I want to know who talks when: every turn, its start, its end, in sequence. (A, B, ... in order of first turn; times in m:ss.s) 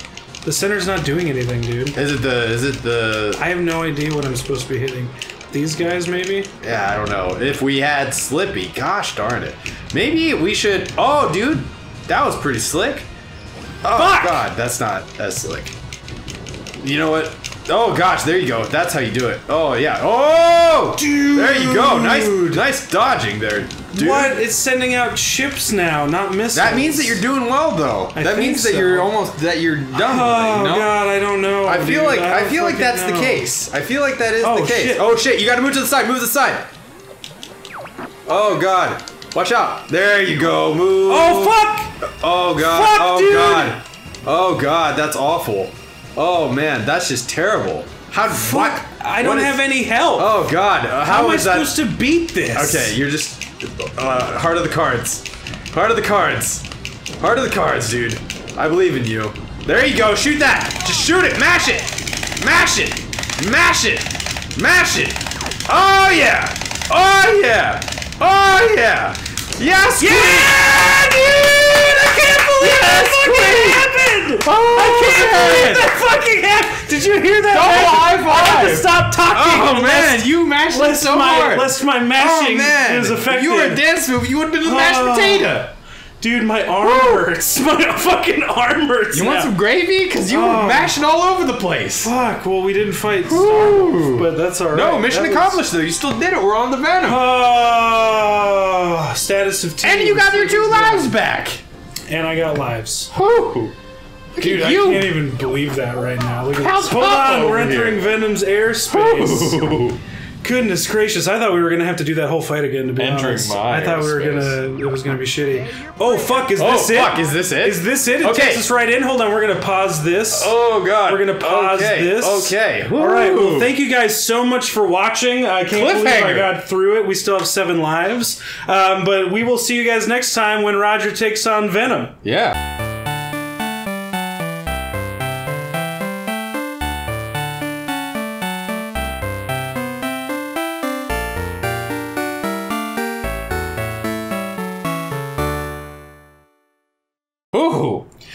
0:00.4-0:02.0 A
0:02.0-0:03.4 B
0:03.4-0:06.5 A
0:06.6-0:13.1 B
0:13.8-0:15.8 B
0:13.9-0:14.4 A
0:16.8-0:24.4 B
0:21.0-0:22.6 A
0:23.9-0:27.2 A
0:26.5-0:31.0 B
0:28.2-0:29.1 A
0:29.9-0:33.5 A
0:31.7-0:36.7 B
0:34.4-0:35.1 A
0:38.3-0:51.8 B
0:41.1-0:41.9 A
0:42.6-0:43.8 A
0:48.3-0:50.4 A
0:51.0-0:53.0 A
0:52.5-0:56.6 B
0:57.2-1:15.9 B
1:10.0-1:23.8 A
1:17.5-1:25.7 B
1:24.6-1:25.6 A
1:26.2-1:29.5 A
1:26.8-1:27.3 B
1:29.1-1:32.1 B
1:30.3-1:31.0 A
1:32.0-1:35.6 A
1:33.2-1:37.2 B
1:37.0-1:41.2 A
1:39.8-1:41.6 B
1:42.1-1:43.1 A
1:43.1-1:43.7 B
1:44.4-1:45.3 B
1:44.4-1:49.7 A
1:46.5-1:48.1 B
1:48.9-1:50.0 B
1:50.4-2:00.6 A
1:53.0-1:54.6 B
1:56.6-1:58.6 B
2:00.3-2:03.7 B
2:01.1-2:12.2 A
2:05.7-2:06.5 B
2:12.2-2:12.6 B
2:27.5-2:28.1 B